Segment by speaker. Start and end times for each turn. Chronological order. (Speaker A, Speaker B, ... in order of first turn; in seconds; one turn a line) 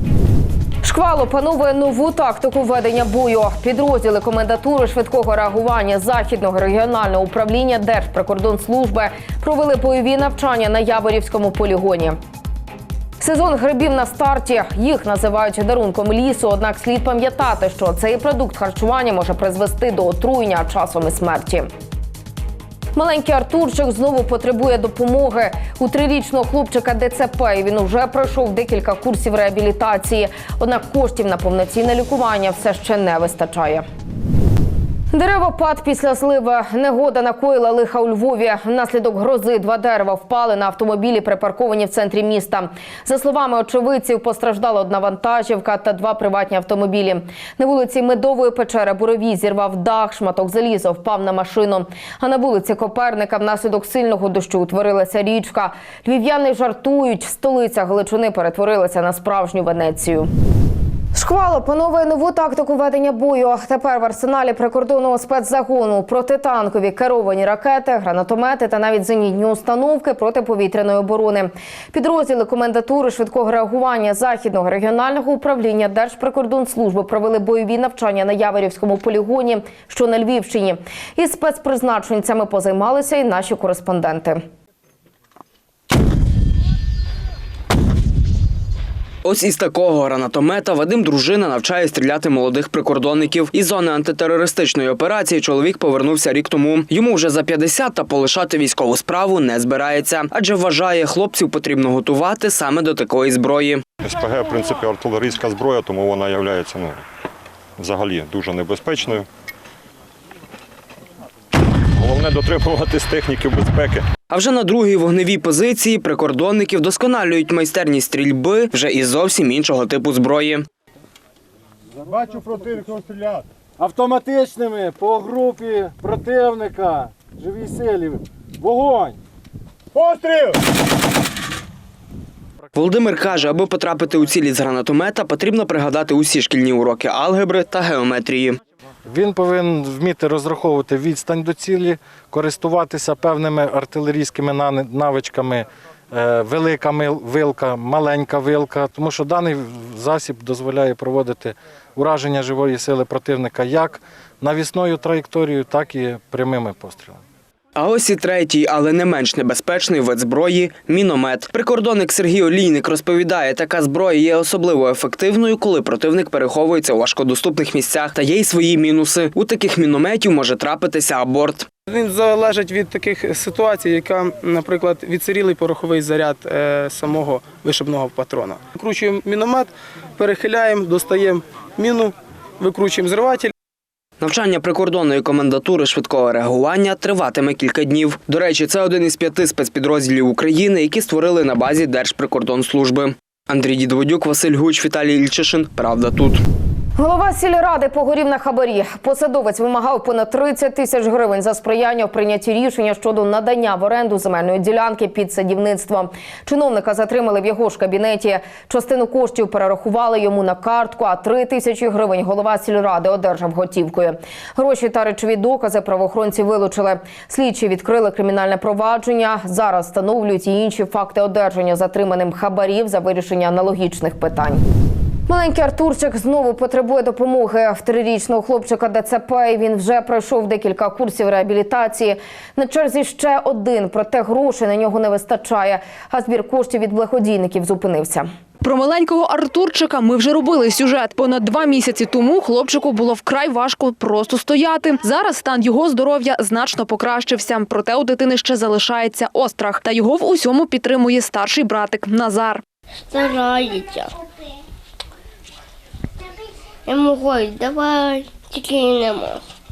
Speaker A: 0.8-12.2
Speaker A: 13.2-21.7
Speaker A: 22.9-33.8
Speaker A: 35.1-60.3
Speaker A: 61.1-84.4
Speaker B: 89.2-103.8
Speaker C: 104.0-107.0
Speaker C: 107.8-109.2
Speaker C: 111.9-114.0
Speaker B: 114.3-120.7
Speaker D: 122.1-123.3
Speaker D: 123.8-129.2
Speaker D: 129.9-130.5
Speaker B: 132.7-138.6
Speaker D: 139.1-157.2
Speaker B: 157.8-171.7
Speaker E: 171.9-183.5
Speaker B: 184.2-196.4
Speaker A: 197.0-224.6
Speaker A: 225.3-238.3
Speaker F: 238.6-252.6
Speaker G: 253.1-254.1
Speaker G: 256.9-259.4